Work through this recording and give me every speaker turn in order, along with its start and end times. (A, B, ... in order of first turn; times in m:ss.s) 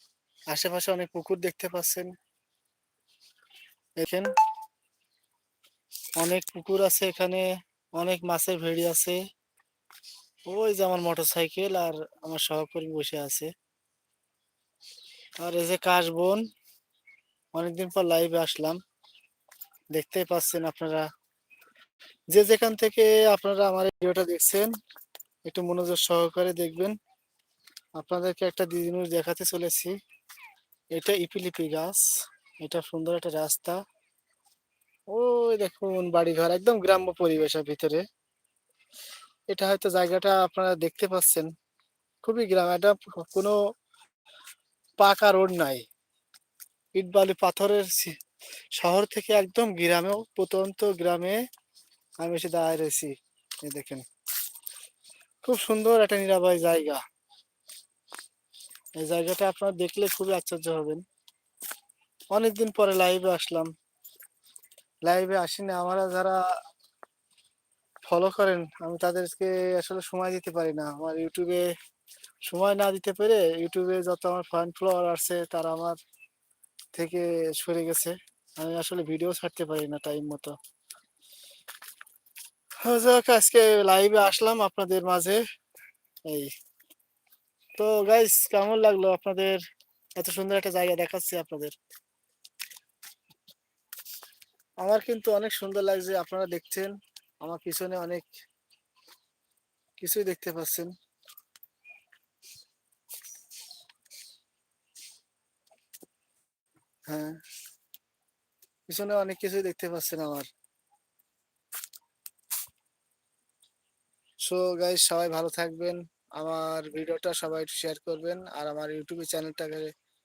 0:00.5-0:02.1 A
0:04.0-0:04.3 A
0:06.2-0:09.2 A
0:10.5-0:13.5 A
0:15.4-0:16.4 A
0:17.5-0:18.8 A
0:19.9-0:21.1 A
0:22.3-0:24.7 A
0:25.4-0:26.9 A
0:28.0-0:30.0 A
0:30.9-0:32.1 A
0:32.6-0:33.8 A
0:35.1-0:38.0 A
0:39.5-0:41.5 A
0:42.2-0:43.6 A
0:45.0-0:45.8 A
0:46.9-0:48.2 A
0:48.8-0:51.4 A
0:52.2-0:54.0 A
0:55.4-0:57.0 A
0:59.0-1:01.0 A
1:02.3-1:03.7 A
1:05.0-1:06.4 A
1:08.1-1:11.7 A
1:12.5-1:16.0 A
1:16.9-1:20.6 A
1:22.8-1:25.4 A
1:27.8-1:29.6 A
1:30.2-1:31.7 A
1:34.8-1:38.2 A
1:40.0-1:40.9 A
1:47.1-1:47.4 A
1:48.9-1:50.5 A
1:54.4-1:59.9 A